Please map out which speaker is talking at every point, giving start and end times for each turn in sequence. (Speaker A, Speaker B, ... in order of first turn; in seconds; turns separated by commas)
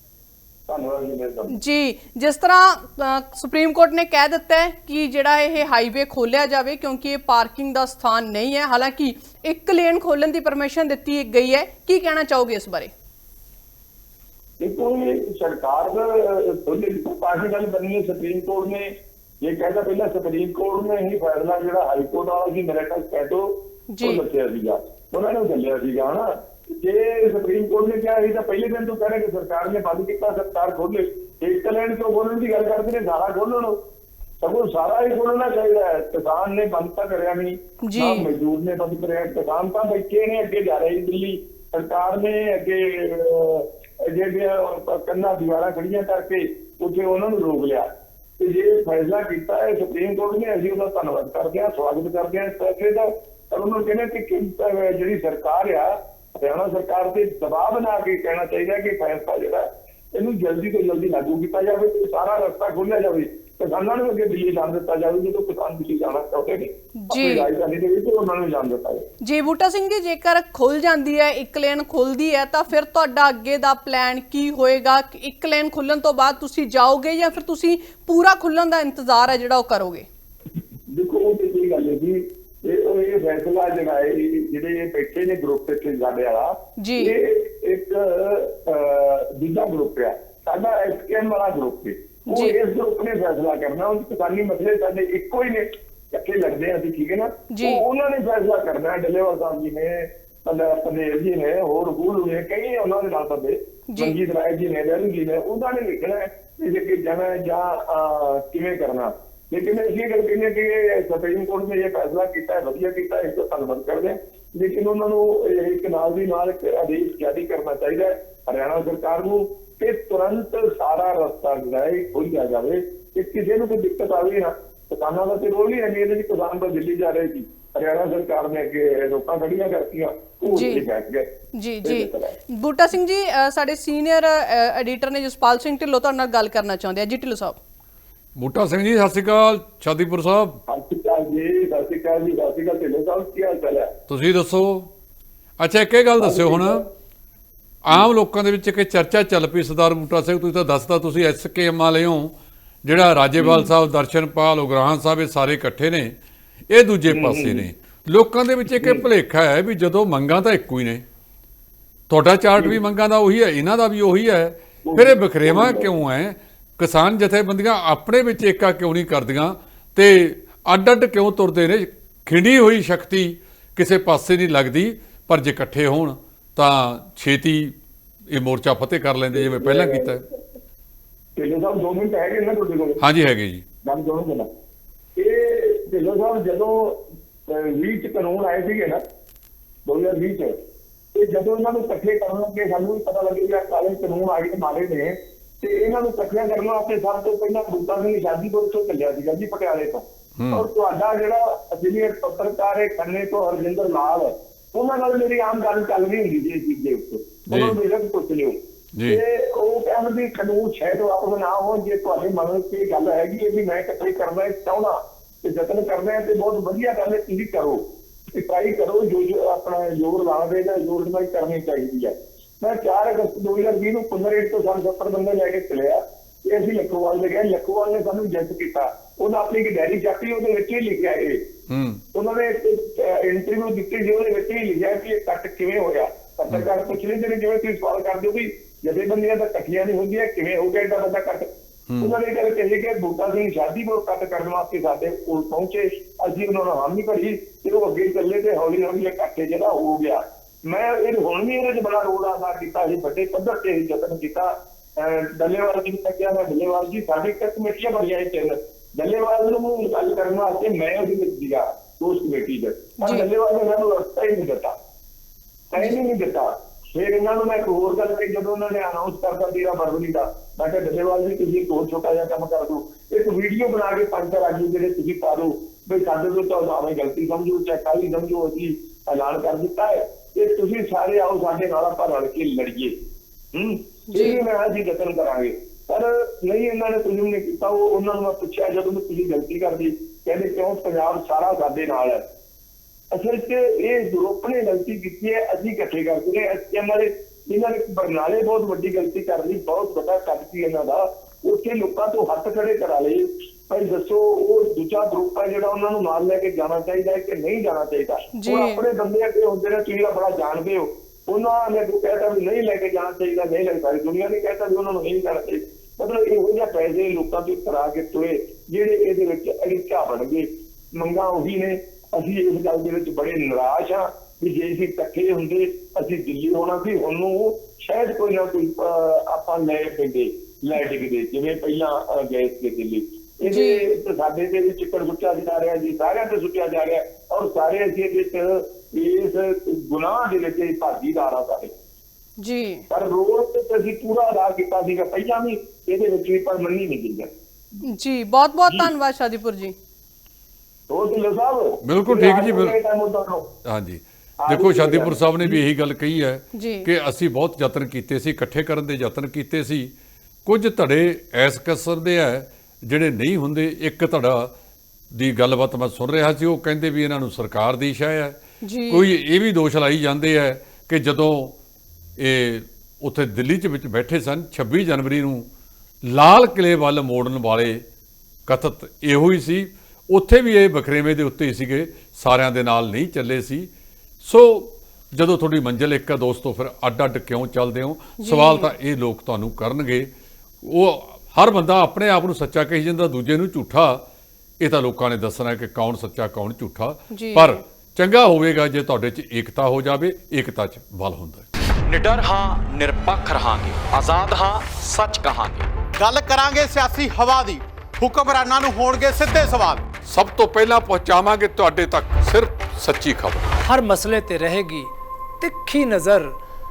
Speaker A: 0.7-1.6, Speaker B: 1.5-12.9, Speaker A: 14.6-33.8, Speaker B: 23.9-24.2, Speaker A: 34.4-47.9, Speaker B: 37.8-38.3, Speaker A: 48.4-69.1, Speaker B: 67.0-67.5, Speaker B: 69.2-80.1, Speaker A: 80.9-131.3, Speaker B: 86.8-87.1, Speaker B: 92.3-92.6, Speaker B: 97.5-97.8, Speaker B: 103.9-104.2, Speaker B: 130.5-130.8, Speaker B: 131.5-137.6, Speaker A: 131.8-132.4, Speaker C: 138.4-140.6, Speaker A: 140.7-143.9, Speaker C: 144.1-144.9, Speaker C: 145.6-146.8, Speaker A: 146.2-146.8, Speaker C: 147.8-156.2, Speaker A: 153.4-153.7, Speaker C: 156.7-161.0, Speaker A: 157.1-157.7, Speaker A: 158.8-159.1, Speaker C: 162.1-177.8, Speaker A: 164.8-166.0, Speaker C: 178.3-180.2, Speaker A: 179.4-180.1, Speaker A: 181.4-183.0, Speaker C: 183.0-183.7, Speaker A: 183.8-184.5, Speaker A: 185.2-189.0, Speaker A: 189.8-190.6, Speaker A: 191.1-231.4, Speaker C: 200.4-200.7, Speaker C: 207.5-207.8, Speaker C: 208.9-209.2, Speaker C: 231.7-232.0, Speaker A: 232.1-241.5, Speaker C: 241.9-242.2, Speaker A: 242.0-264.7, Speaker B: 263.0-263.2, Speaker A: 265.7-283.0, Speaker A: 283.5-292.2, Speaker B: 284.1-284.4, Speaker A: 293.1-341.7, Speaker B: 308.4-308.8, Speaker B: 333.4-333.9, Speaker B: 342.4-342.8, Speaker A: 342.9-347.3, Speaker B: 347.8-349.8, Speaker A: 350.9-353.5, Speaker C: 351.8-352.8, Speaker C: 353.7-359.9, Speaker A: 354.4-355.6, Speaker B: 356.5-356.9, Speaker C: 360.4-364.5, Speaker C: 365.1-371.6, Speaker B: 368.6-369.1, Speaker C: 372.2-375.5, Speaker C: 376.1-377.8, Speaker C: 378.5-383.7, Speaker C: 384.2-390.1, Speaker B: 388.2-388.7, Speaker C: 390.6-394.1, Speaker C: 394.6-401.5, Speaker B: 397.1-397.6, Speaker D: 401.9-405.7, Speaker E: 406.0-409.8, Speaker C: 410.1-413.6, Speaker F: 413.6-416.4